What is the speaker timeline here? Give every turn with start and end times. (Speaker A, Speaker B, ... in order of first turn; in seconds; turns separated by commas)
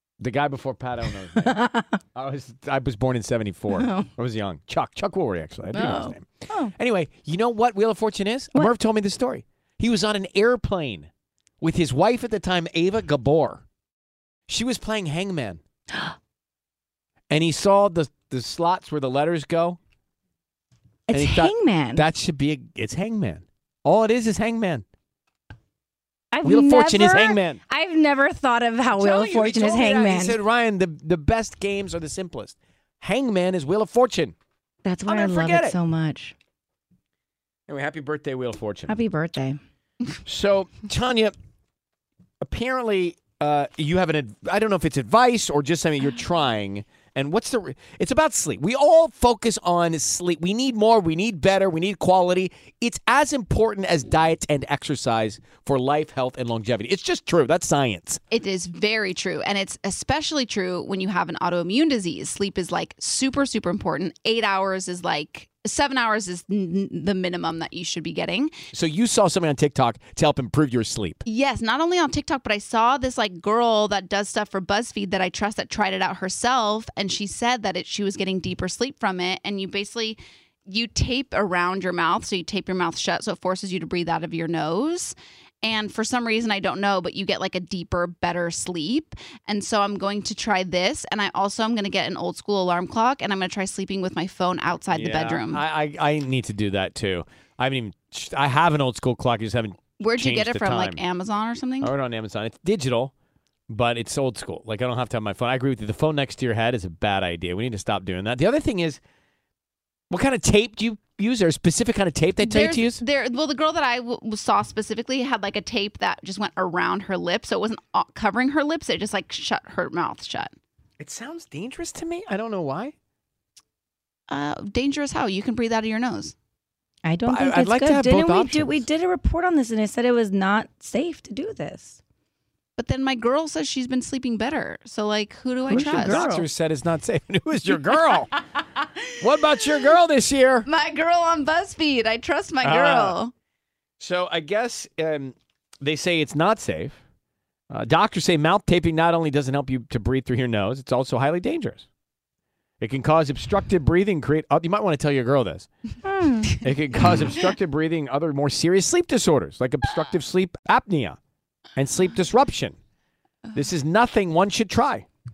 Speaker A: 0.2-11.1, Speaker B: 1.5-1.9, Speaker B: 3.8-4.1, Speaker B: 5.7-6.7, Speaker A: 11.6-13.6, Speaker A: 14.5-15.6, Speaker A: 17.3-19.8, Speaker B: 21.1-22.1, Speaker A: 21.1-24.9, Speaker B: 26.3-30.4, Speaker A: 26.4-27.6, Speaker A: 28.9-34.4, Speaker B: 34.8-36.4, Speaker A: 35.1-35.8, Speaker A: 37.7-39.0, Speaker B: 38.9-39.6, Speaker A: 40.3-41.4, Speaker A: 42.4-58.2, Speaker C: 58.3-68.6, Speaker A: 68.7-71.2, Speaker C: 71.2-95.6, Speaker A: 94.9-101.0, Speaker C: 100.0-101.9, Speaker A: 101.8-103.1, Speaker A: 103.7-109.0, Speaker A: 110.1-113.0, Speaker C: 112.4-120.5, Speaker A: 121.0-122.9, Speaker C: 124.3-126.3, Speaker B: 127.0-132.0, Speaker A: 127.3-128.8, Speaker C: 132.8-136.2, Speaker B: 135.7-136.5, Speaker A: 135.7-138.4, Speaker A: 139.2-140.7, Speaker C: 140.7-143.3, Speaker A: 142.6-143.2, Speaker A: 144.0-147.0, Speaker A: 147.7-151.9, Speaker A: 152.8-155.7, Speaker B: 156.1-156.6, Speaker A: 156.6-161.2, Speaker A: 161.8-162.8, Speaker A: 163.5-165.1